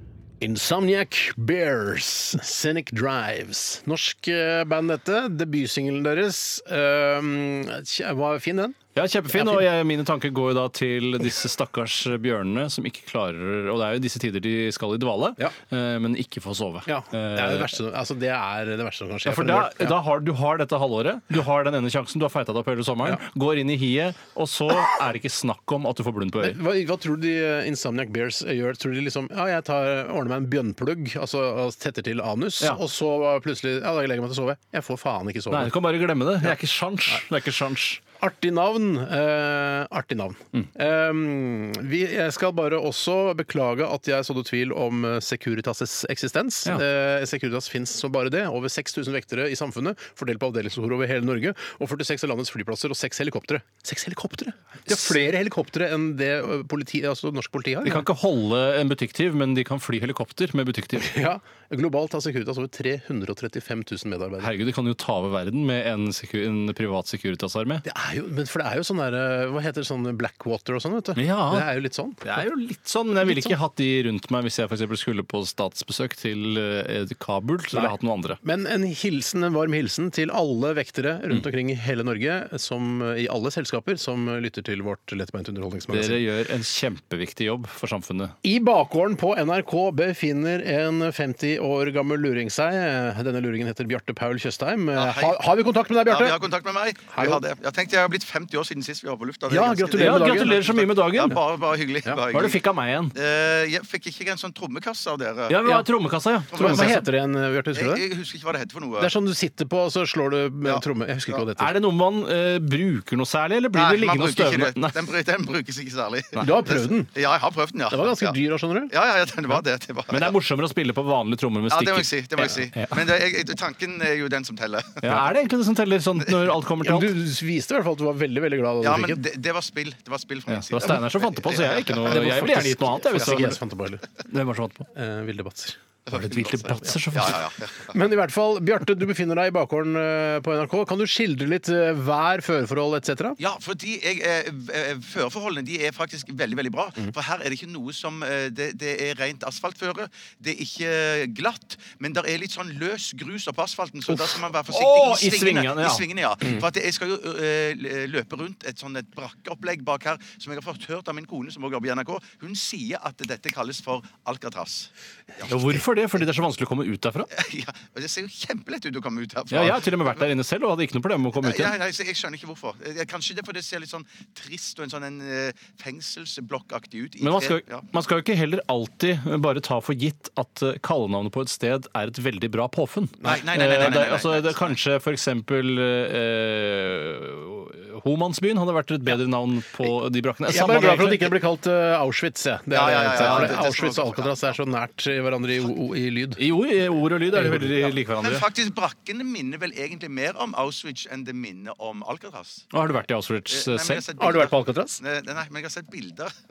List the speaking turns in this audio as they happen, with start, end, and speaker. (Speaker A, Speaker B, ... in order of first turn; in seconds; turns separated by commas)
Speaker A: 0.4-8.8, Speaker B: 8.9-17.7, Speaker A: 9.3-9.7, Speaker A: 16.9-20.0, Speaker B: 19.3-26.6, Speaker A: 26.4-35.7, Speaker B: 35.5-38.0, Speaker A: 38.2-58.1, Speaker B: 57.8-61.1, Speaker A: 61.0-64.5, Speaker B: 64.4-67.8, Speaker A: 67.8-72.4, Speaker B: 71.2-71.7, Speaker B: 72.2-78.4, Speaker A: 73.2-73.6, Speaker A: 77.7-86.2, Speaker B: 85.9-88.3, Speaker A: 88.4-96.4, Speaker C: 95.0-95.4, Speaker C: 96.1-102.6, Speaker A: 97.1-97.4, Speaker A: 99.5-100.6, Speaker B: 99.9-101.4, Speaker B: 102.3-103.1, Speaker C: 103.1-105.6, Speaker B: 105.5-107.0, Speaker C: 106.5-107.0, Speaker A: 106.5-108.0, Speaker C: 107.7-109.1, Speaker A: 109.0-111.7, Speaker C: 110.6-111.4, Speaker B: 111.6-115.0, Speaker C: 113.7-118.4, Speaker A: 116.4-117.1, Speaker A: 117.9-118.9, Speaker C: 118.9-120.3, Speaker B: 120.1-123.0, Speaker C: 121.7-125.2, Speaker B: 125.0-127.1, Speaker A: 126.8-129.2, Speaker C: 128.8-132.2, Speaker B: 130.5-133.6, Speaker A: 132.1-134.0, Speaker B: 134.2-134.9, Speaker A: 134.9-137.0, Speaker C: 136.1-136.6, Speaker B: 136.1-137.4, Speaker C: 137.1-137.9, Speaker A: 137.9-143.4, Speaker C: 143.4-165.8, Speaker B: 154.1-156.1, Speaker B: 165.5-167.3, Speaker C: 167.3-170.2, Speaker B: 169.5-171.8, Speaker C: 171.4-177.9, Speaker B: 177.2-191.4, Speaker C: 183.2-184.8, Speaker A: 190.5-196.4, Speaker C: 192.7-194.6, Speaker B: 193.1-193.5, Speaker B: 196.4-198.5, Speaker A: 197.4-197.8, Speaker C: 198.1-202.7, Speaker B: 202.7-204.5, Speaker C: 203.5-206.3, Speaker A: 204.2-205.0